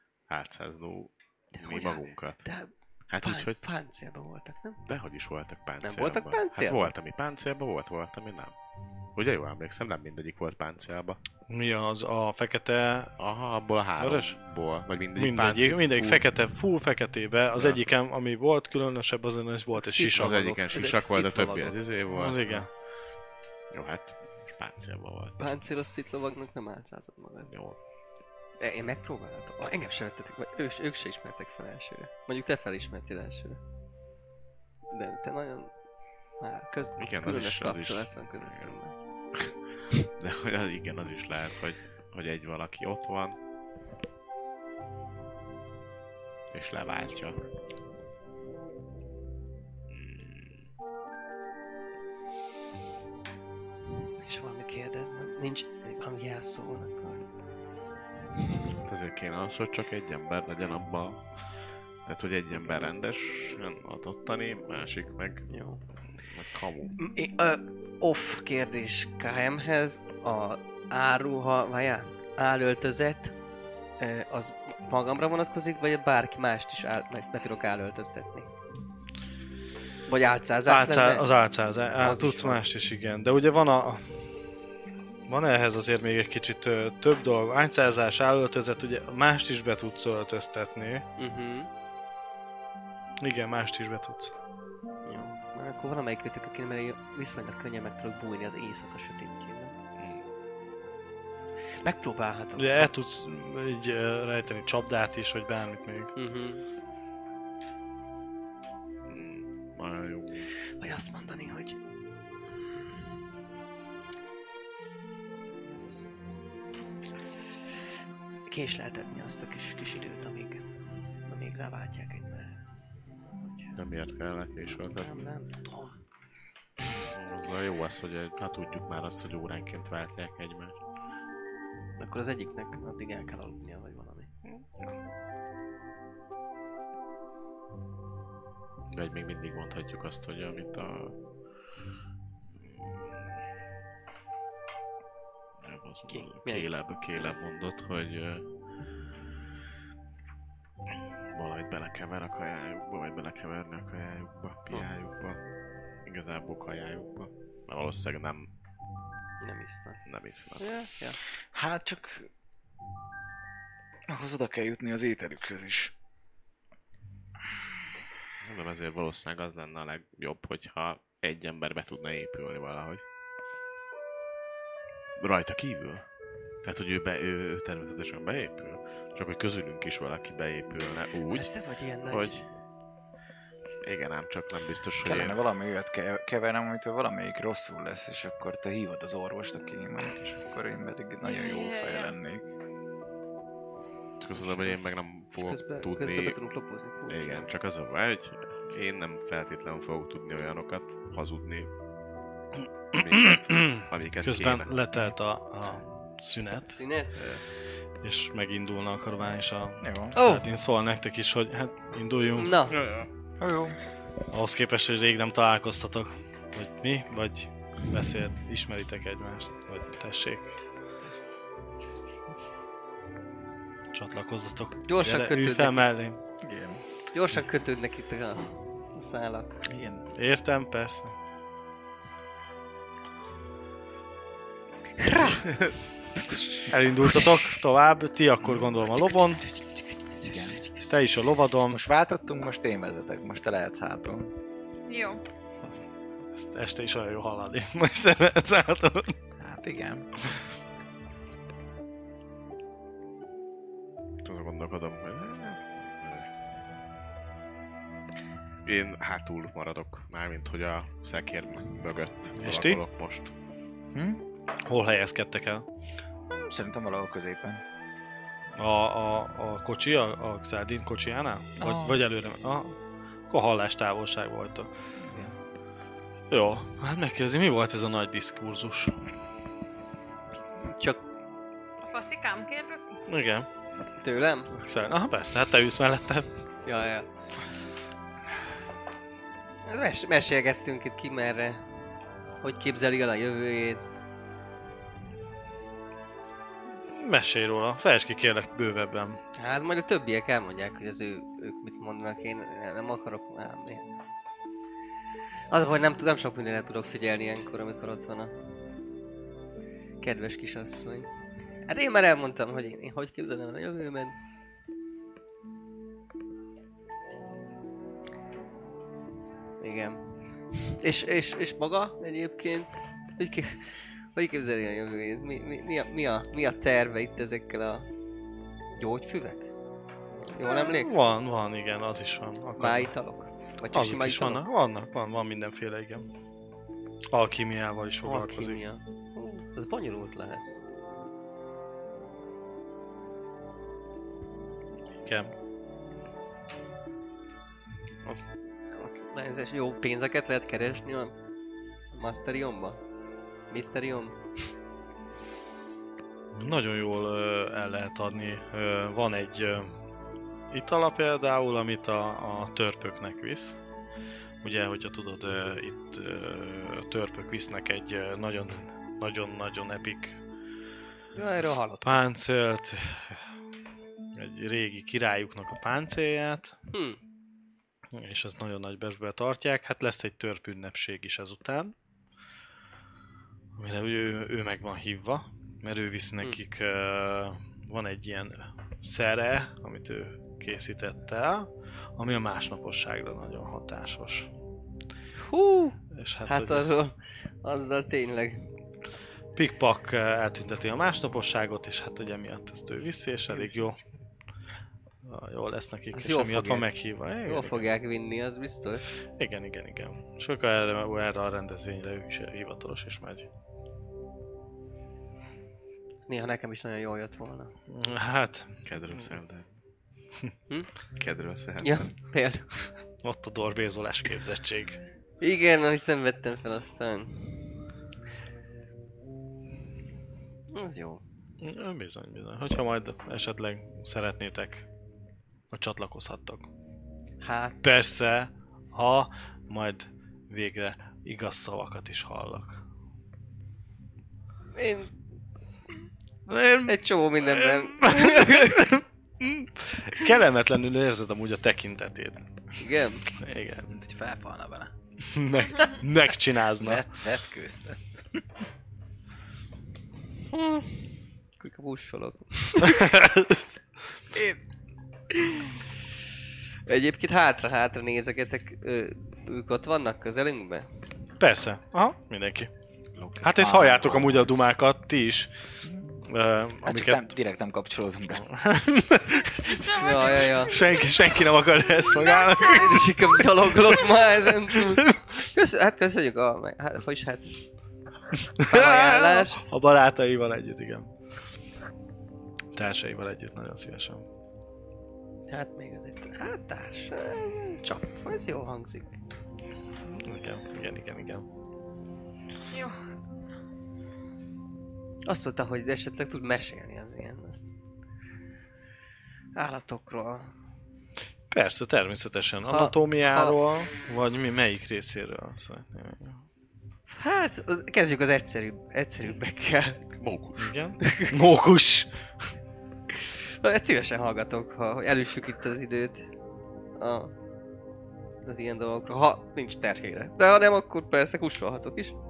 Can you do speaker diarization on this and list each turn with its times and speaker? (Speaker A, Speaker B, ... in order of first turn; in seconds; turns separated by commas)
Speaker A: 0.3-2.4, Speaker B: 1.5-4.8, Speaker A: 3.1-3.6, Speaker A: 4.8-8.5, Speaker B: 5.8-6.9, Speaker A: 9.1-11.2, Speaker C: 11.5-13.1, Speaker A: 13.2-16.2, Speaker C: 14.0-14.4, Speaker C: 15.2-20.4, Speaker A: 17.6-17.8, Speaker B: 19.8-21.8, Speaker A: 20.1-22.8, Speaker C: 22.1-22.7, Speaker A: 23.7-25.6, Speaker B: 25.4-27.5, Speaker A: 27.5-27.8, Speaker B: 28.6-33.6, Speaker B: 34.9-35.7, Speaker B: 36.4-39.0, Speaker A: 37.0-38.8, Speaker A: 40.2-43.4, Speaker A: 46.5-47.4, Speaker A: 49.9-50.6, Speaker B: 54.2-57.2, Speaker A: 58.8-61.5, Speaker A: 62.0-65.5, Speaker B: 62.5-62.9, Speaker B: 65.5-65.8, Speaker A: 66.2-67.0, Speaker B: 67.0-73.3, Speaker B: 74.0-78.5, Speaker B: 80.1-81.3, Speaker C: 80.7-84.2, Speaker B: 82.0-82.6, Speaker C: 85.3-91.0, Speaker B: 91.2-91.7, Speaker C: 93.2-94.3, Speaker B: 95.0-99.8, Speaker A: 100.0-100.2, Speaker B: 101.8-102.9, Speaker C: 102.6-106.1, Speaker B: 106.1-106.6, Speaker A: 109.1-110.3, Speaker B: 110.8-111.8, Speaker B: 118.5-120.7, Speaker B: 121.3-122.6, Speaker B: 123.4-123.8, Speaker A: 123.8-125.3, Speaker B: 124.7-126.0, Speaker A: 127.0-130.8, Speaker B: 132.0-134.3, Speaker A: 138.9-141.2, Speaker A: 142.6-143.2, Speaker A: 145.6-148.4, Speaker B: 146.1-147.4, Speaker A: 151.3-155.4, Speaker A: 156.0-158.5, Speaker B: 159.4-160.0, Speaker A: 160.1-160.7, Speaker B: 160.6-161.2, Speaker D: 161.5-162.3, Speaker D: 164.1-165.9, Speaker A: 168.4-173.0, Speaker A: 175.2-176.1, Speaker A: 176.6-181.5, Speaker B: 181.3-182.4, Speaker A: 182.0-182.4, Speaker A: 183.8-185.4, Speaker D: 185.0-192.4, Speaker E: 191.2-192.2, Speaker A: 194.2-196.4, Speaker B: 194.3-197.5, Speaker A: 197.1-201.7, Speaker A: 202.9-204.7, Speaker C: 202.9-206.8, Speaker B: 206.8-207.2, Speaker A: 207.1-207.4, Speaker C: 208.0-212.7, Speaker D: 209.8-210.2, Speaker B: 210.2-210.4, Speaker B: 212.4-212.8, Speaker A: 212.7-213.1, Speaker D: 213.4-213.8, Speaker C: 214.3-220.6, Speaker C: 223.9-226.2, Speaker B: 224.8-225.9, Speaker D: 226.4-226.8, Speaker B: 227.1-229.5, Speaker D: 229.7-230.0, Speaker C: 230.1-231.1, Speaker B: 235.0-235.4, Speaker A: 235.3-235.7, Speaker C: 236.7-239.4, Speaker B: 240.2-240.6, Speaker D: 240.2-240.6, Speaker C: 240.9-241.8, Speaker D: 241.7-244.3, Speaker E: 244.8-245.2, Speaker C: 246.3-249.2, Speaker D: 249.4-250.1, Speaker A: 254.2-256.3, Speaker A: 258.6-263.3, Speaker C: 262.4-262.8, Speaker D: 263.9-264.2, Speaker C: 264.6-265.6, Speaker D: 266.3-267.6, Speaker C: 268.6-272.8, Speaker D: 271.6-272.0, Speaker C: 273.3-274.7, Speaker D: 275.0-275.3, Speaker C: 276.3-279.0, Speaker E: 281.8-283.0, Speaker C: 283.1-283.5, Speaker B: 284.0-284.5, Speaker C: 284.5-286.3, Speaker B: 286.6-287.1, Speaker B: 289.6-291.6, Speaker B: 292.4-293.8, Speaker C: 296.9-299.2, Speaker B: 299.4-303.8, Speaker B: 305.5-308.3, Speaker B: 310.0-311.1, Speaker B: 311.7-314.1, Speaker B: 319.6-327.9, Speaker B: 328.7-329.5, Speaker B: 330.2-331.1, Speaker C: 330.4-332.9, Speaker B: 332.6-334.4, Speaker C: 333.7-336.1, Speaker C: 337.1-338.6, Speaker B: 338.0-340.4, Speaker C: 345.1-345.3, Speaker B: 348.0-351.1, Speaker B: 351.9-352.8, Speaker B: 353.5-354.2, Speaker C: 356.3-359.7, Speaker C: 360.5-363.6, Speaker C: 364.4-370.2, Speaker B: 371.1-372.0, Speaker C: 371.8-373.2, Speaker C: 374.1-376.6, Speaker B: 376.7-377.0, Speaker C: 377.9-381.7, Speaker C: 383.6-394.3, Speaker B: 395.2-398.4, Speaker C: 395.9-396.7, Speaker C: 399.4-403.8, Speaker C: 405.0-407.7, Speaker B: 405.9-406.7, Speaker B: 407.2-408.8, Speaker C: 409.2-413.3, Speaker B: 416.1-417.5, Speaker C: 417.7-419.1, Speaker A: 418.6-419.5, Speaker A: 421.0-421.8, Speaker B: 421.6-422.7, Speaker C: 423.0-424.8, Speaker B: 425.2-427.5, Speaker B: 430.5-431.0, Speaker C: 431.4-434.7, Speaker C: 435.5-436.5, Speaker B: 437.2-437.6, Speaker C: 437.6-442.6, Speaker B: 444.6-444.9, Speaker C: 446.3-452.2, Speaker B: 446.7-448.7, Speaker B: 452.6-453.0, Speaker C: 453.2-453.7, Speaker D: 453.7-454.7, Speaker C: 455.1-456.8, Speaker D: 456.6-458.2, Speaker B: 460.3-460.8, Speaker B: 461.4-463.0, Speaker C: 462.6-463.4, Speaker B: 465.1-465.6, Speaker B: 466.7-470.7, Speaker C: 471.2-472.5, Speaker A: 473.0-473.5, Speaker C: 473.2-475.3, Speaker D: 473.2-474.4, Speaker D: 475.6-475.9, Speaker C: 476.0-477.1, Speaker D: 476.6-478.3, Speaker C: 478.3-485.0, Speaker E: 479.3-481.1, Speaker B: 479.7-480.5, Speaker E: 481.7-482.9, Speaker B: 482.3-487.4, Speaker C: 488.3-490.9, Speaker B: 488.4-489.4, Speaker C: 492.5-494.0, Speaker B: 495.3-498.9, Speaker C: 499.9-501.2, Speaker E: 502.5-502.8, Speaker B: 505.1-507.5, Speaker B: 509.4-510.3, Speaker C: 511.3-516.2, Speaker B: 512.5-513.4, Speaker B: 516.9-519.8, Speaker A: 519.9-520.5, Speaker C: 520.4-521.9, Speaker B: 520.8-521.1, Speaker B: 523.0-526.1, Speaker B: 526.8-527.1, Speaker B: 528.2-532.0